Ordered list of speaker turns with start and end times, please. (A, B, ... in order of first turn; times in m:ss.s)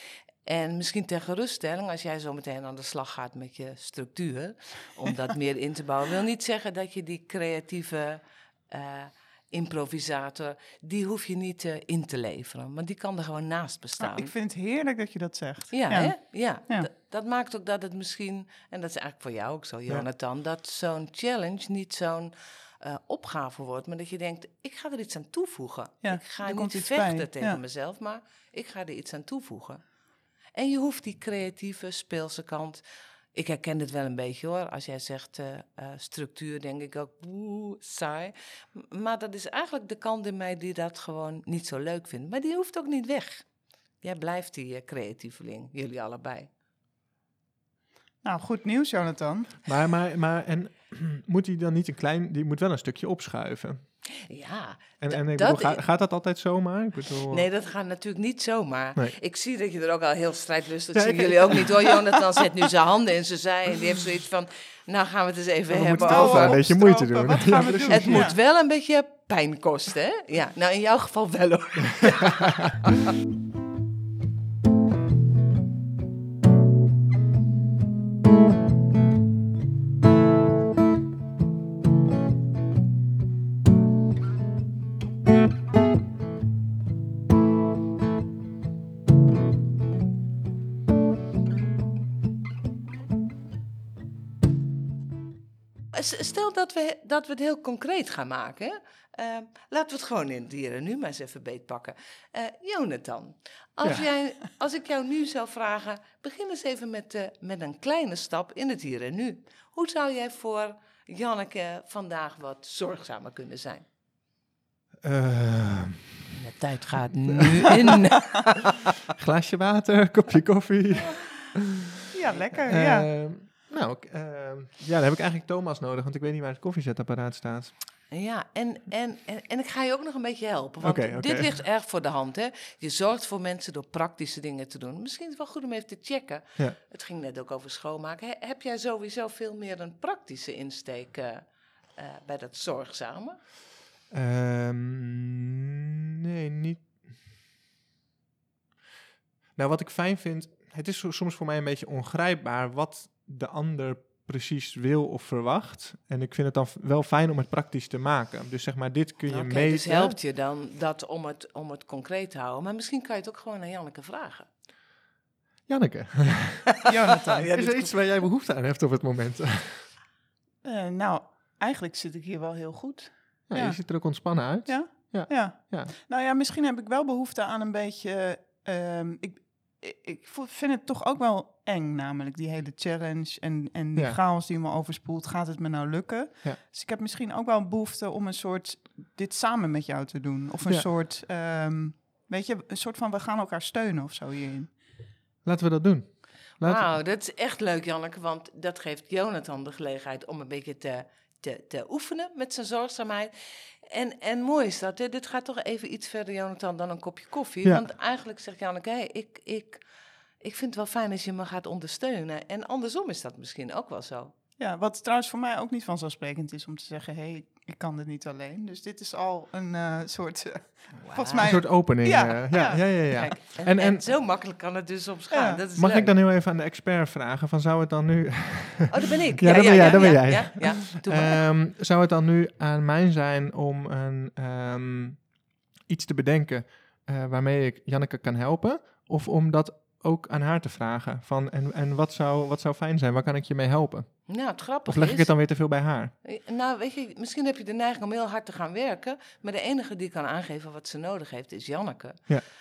0:00.5-0:14.3 A
0:14.0-0:16.9 B
0:15.7-0:29.8 A
0:26.0-0:27.6 B
0:30.6-0:32.8 A
0:33.4-0:43.5 A
0:44.0-0:46.5 A
0:48.2-0:49.6 B
0:49.7-0:53.8 C
0:54.3-0:55.8 A
0:55.0-0:57.5 C
0:57.3-1:06.7 A
1:01.0-1:01.9 C
1:05.7-1:08.3 C
1:06.1-1:08.4 B
1:07.5-1:13.0 A
1:12.1-1:12.5 C
1:35.9-1:53.8 A
1:55.0-1:56.1 C
1:56.3-1:59.0 A
1:57.3-1:57.9 C
1:59.2-2:01.6 C
2:02.1-2:03.1 B
2:02.7-2:07.7 C
2:08.1-2:23.4 A
2:10.8-2:11.6 C
2:24.1-2:26.9 C
2:29.6-2:40.2 C
2:39.3-2:44.5 A
2:45.7-2:46.8 C
2:46.8-2:47.5 B
2:47.0-2:48.1 A
2:47.5-2:49.9 C
2:50.6-3:14.8 B
2:53.5-2:55.9 C
3:15.4-3:16.9 C
3:16.6-3:23.3 A
3:23.8-3:29.8 A
3:30.4-3:34.3 A
3:34.6-3:42.9 B
3:41.0-3:41.5 A
3:41.4-3:44.1 C
3:42.7-3:46.1 A
3:45.3-3:45.6 B
3:45.8-3:55.3 C
3:48.9-3:51.4 A
3:55.8-4:06.1 C
4:04.3-4:12.3 A